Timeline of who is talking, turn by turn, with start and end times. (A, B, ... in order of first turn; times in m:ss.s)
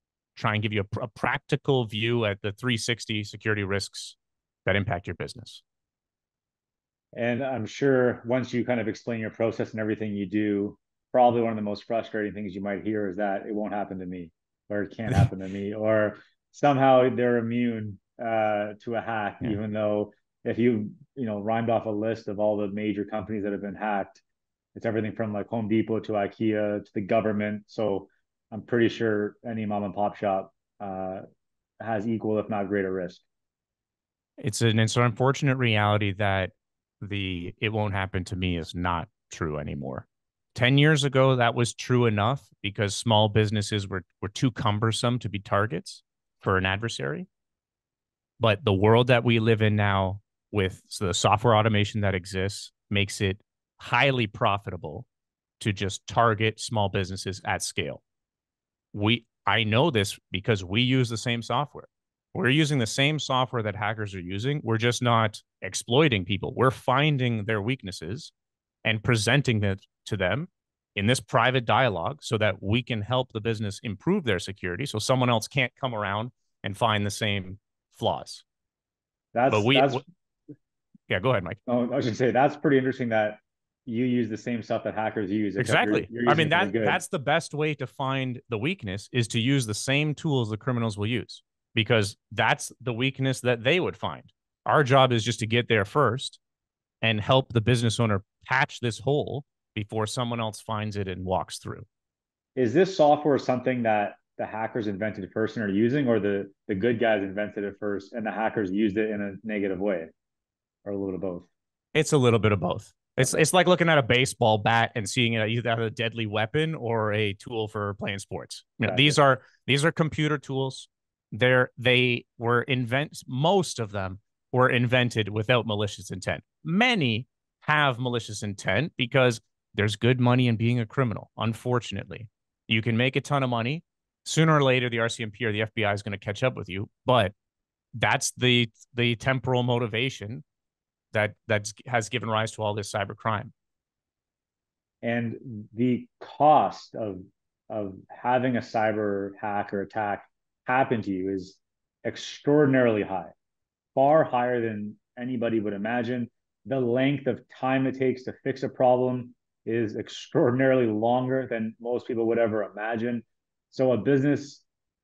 0:00.4-0:05.6 A
0:07.1-0:24.2 B
0:24.8-0:31.2 B
0:31.8-0:33.2 B
0:34.4-0:47.3 A
0:48.4-0:55.1 A
0:55.6-0:58.0 A
0:58.9-1:08.3 A
1:08.8-1:18.4 A
1:19.3-1:20.0 B
1:19.5-1:20.0 A
1:21.1-1:21.6 A
1:21.7-1:27.0 B
1:25.6-1:36.4 A
1:37.0-1:41.9 A
1:42.6-1:50.1 B
1:50.8-1:51.5 B
1:51.9-2:17.3 A
1:58.8-1:59.2 B
2:17.9-2:20.4 A
2:21.1-2:23.5 A
2:25.0-2:33.3 B
2:33.9-2:44.6 B